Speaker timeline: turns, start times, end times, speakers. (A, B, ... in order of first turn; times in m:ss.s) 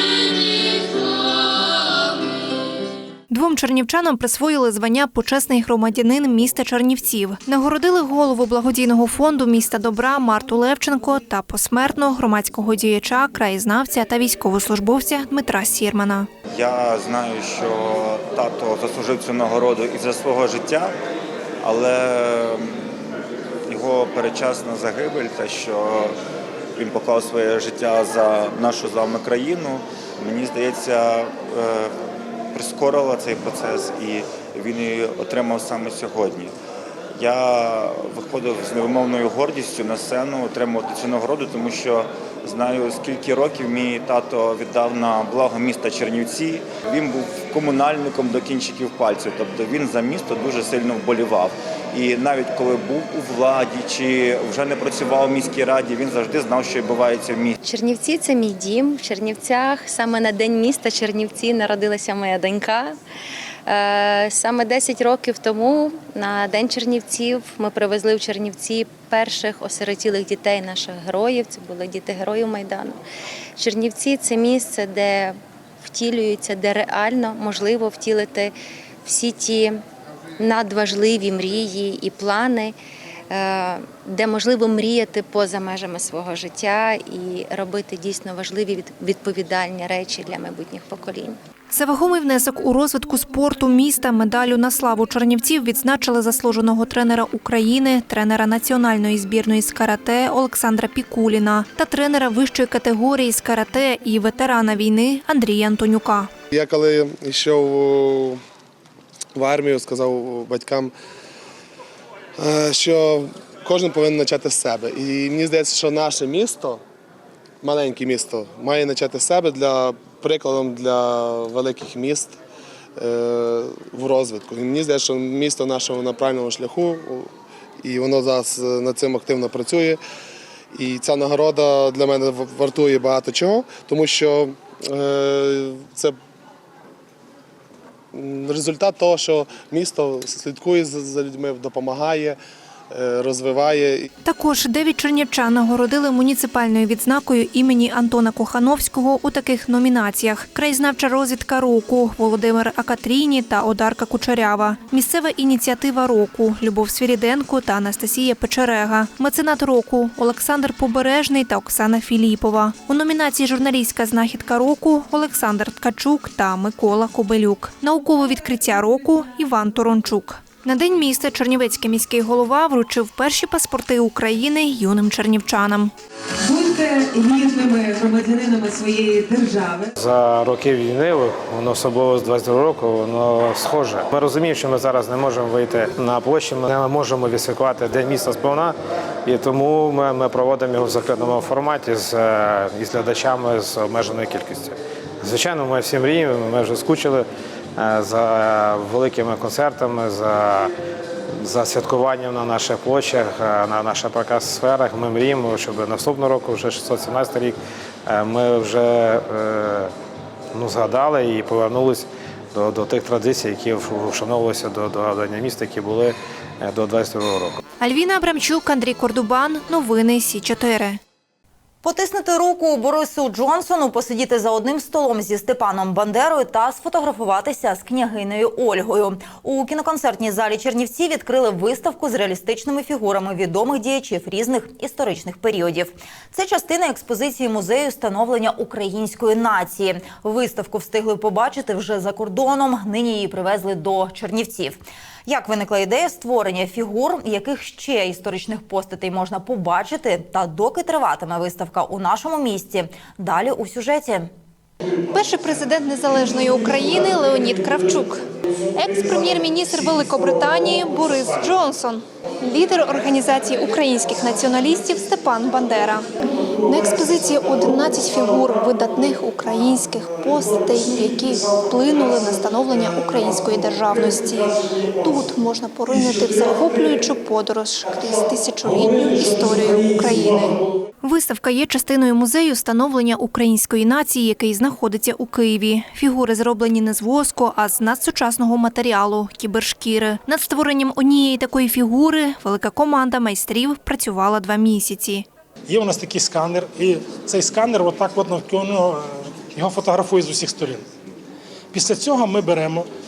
0:03.3-0:16.3 A
0:16.5-0:21.0 B
0:21.6-0:22.9 B
0:23.7-0:26.2 B
0:26.8-0:32.0 B
0:32.5-0:36.5 B
0:37.2-0:57.6 B
0:57.6-1:03.0 C
1:03.7-1:13.0 C
1:13.6-1:19.8 C
1:20.4-1:22.8 C
1:23.3-1:31.4 C
1:31.7-1:46.3 A
1:46.5-1:48.4 D
1:49.4-1:50.9 D
1:52.4-1:56.8 D
1:57.6-2:02.4 D
2:03.0-2:07.3 D
2:07.8-2:10.0 D
2:10.7-2:16.2 D
2:18.1-2:22.4 D
2:22.9-2:24.1 D
2:24.2-2:55.9 A
2:56.4-2:59.9 E
3:00.0-3:20.7 F
3:21.4-3:29.9 F
3:30.5-3:37.6 F
3:37.8-3:41.0 A
3:41.8-4:14.3 G
4:15.1-4:55.3 A
4:26.7-4:28.1 H
4:30.8-4:32.4 H
4:33.1-4:35.2 H
4:35.9-4:37.0 H
4:38.6-4:40.8 H
4:55.7-5:00.8 H
5:01.7-5:02.9 H